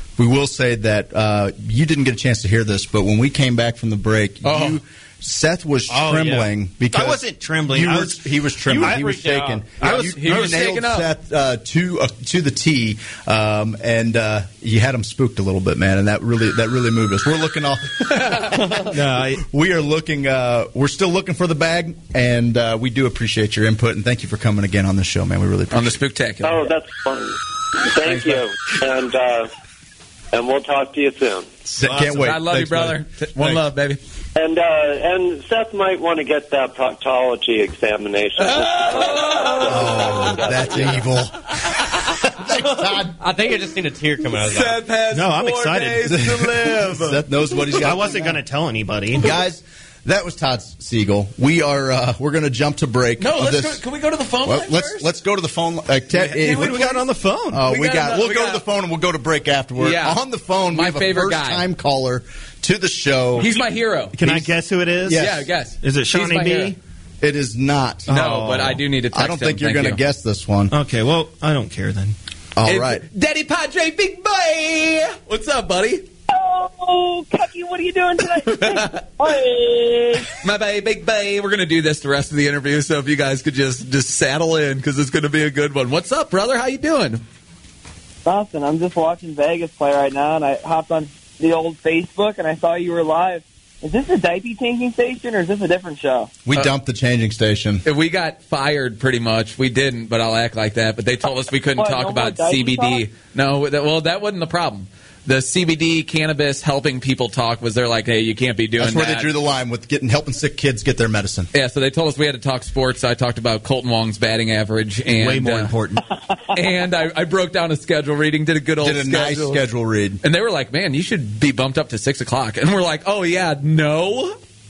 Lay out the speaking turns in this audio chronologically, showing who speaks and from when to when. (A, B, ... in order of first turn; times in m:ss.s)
0:00.2-0:26.0 A
0:04.4-0:04.8 B
0:05.9-0:06.4 C
0:06.0-0:10.2 D
0:09.2-0:09.5 C
0:09.8-0:11.1 B
0:18.1-0:18.6 B
0:18.8-0:19.4 D
0:25.7-0:26.6 B
0:26.4-0:29.5 E
0:30.3-0:31.5 E
0:31.6-0:33.6 A
0:31.9-0:32.2 D
0:32.0-0:34.0 B
0:34.4-0:41.0 E
0:38.4-0:40.5 B
0:39.6-0:43.3 A
0:41.8-0:42.2 B
0:43.2-0:44.8 C
0:44.4-0:47.2 B
0:45.1-0:46.8 D
0:46.1-0:48.4 A
0:47.8-0:49.4 D
0:49.2-0:53.8 A
0:53.2-0:55.1 B
0:54.4-1:03.5 A
0:56.2-0:57.6 D
0:56.4-0:56.9 B
0:57.6-0:58.6 B
0:59.8-1:01.7 B
1:03.4-1:04.2 B
1:04.2-1:06.8 D
1:05.1-1:05.5 A
1:05.1-1:06.8 B
1:07.2-1:10.7 A
1:08.1-1:10.0 B
1:10.7-1:12.2 D
1:12.6-1:13.0 A
1:12.7-1:16.1 B
1:16.3-1:20.3 F
1:18.4-1:19.1 B
1:20.3-1:27.2 B
1:28.2-1:36.3 F
1:36.4-1:37.8 A
1:37.8-1:49.3 B
1:41.8-1:43.1 F
1:48.8-1:51.5 A
1:51.5-1:55.7 B
1:55.2-1:56.1 D
1:56.5-1:59.6 B
1:58.8-2:00.2 A
2:00.2-2:04.4 B